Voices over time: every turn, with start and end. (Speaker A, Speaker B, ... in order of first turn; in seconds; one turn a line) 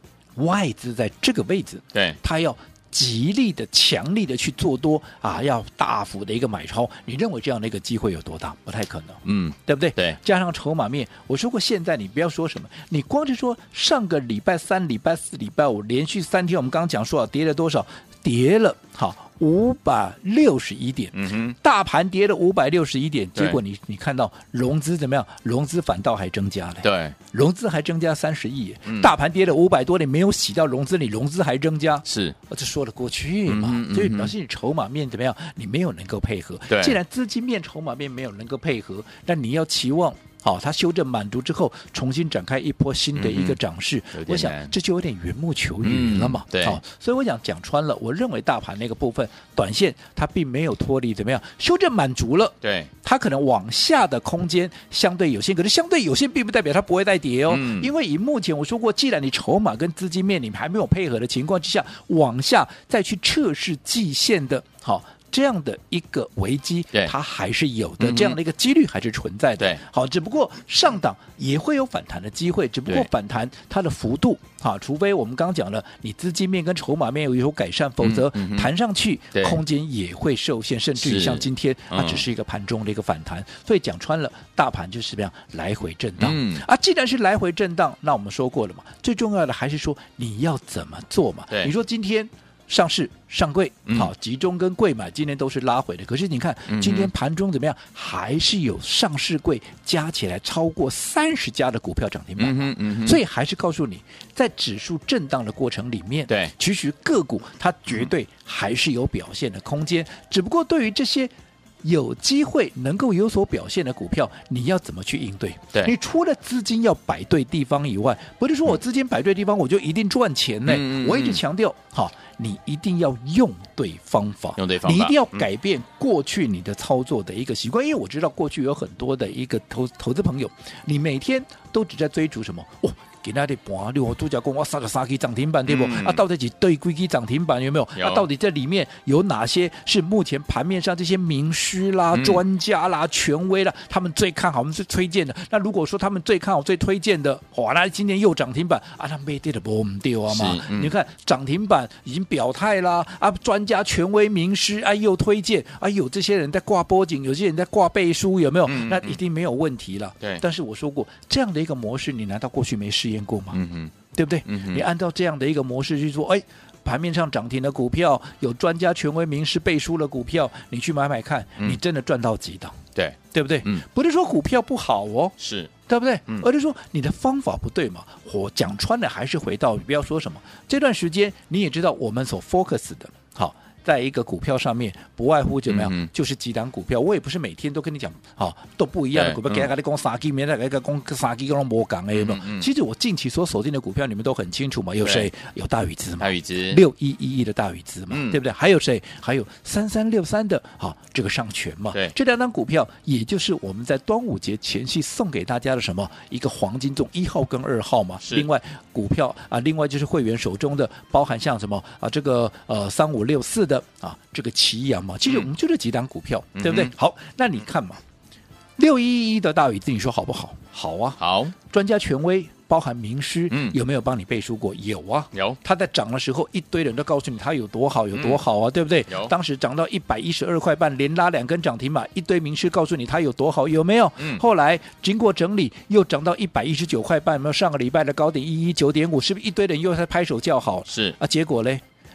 Speaker A: 0.4-163.6
Speaker B: 9.2-10.2
Speaker B: 21.1-21.6
Speaker B: 26.8-27.2
Speaker B: 28.9-29.1
Speaker B: 32.0-32.4
Speaker B: 33.5-34.3
Speaker B: 36.7-37.0
Speaker B: 43.1-43.6
Speaker B: 44.1-44.7
Speaker B: 45.8-46.8
Speaker B: 52.6-52.9
Speaker B: 57.5-57.9
Speaker B: 68.0-68.4
Speaker B: 78.0-78.7
Speaker B: 79.3-79.6
Speaker B: 81.0-82.3
Speaker B: 86.2-86.6
Speaker B: 93.9-94.1
Speaker B: 96.7-97.1
Speaker B: 102.4-103.2
Speaker B: 106.3-106.5
Speaker B: 120.7-121.4
Speaker B: 124.6-125.5
Speaker B: 135.7-136.2
Speaker B: 138.0-138.3
Speaker B: 142.1-142.4
Speaker B: 150.3-150.9
Speaker B: 158.7-159.2
Speaker B: 163.5-163.9
Speaker A: 164.1-172.8
Speaker B: 164.4-164.9
Speaker B: 172.9-173.8
Speaker A: 173.3-175.3
Speaker B: 175.4-175.7
Speaker A: 175.9-218.0
Speaker B: 185.7-186.1
Speaker B: 189.1-189.7
Speaker B: 192.1-192.7
Speaker B: 195.0-195.3
Speaker B: 196.2-196.8
Speaker B: 198.1-198.4
Speaker B: 216.6-216.9
Speaker A: 218.8-241.8
Speaker B: 221.2-221.6
Speaker B: 223.5-223.8
Speaker B: 225.3-225.6
Speaker B: 228.1-228.4
Speaker B: 240.9-241.2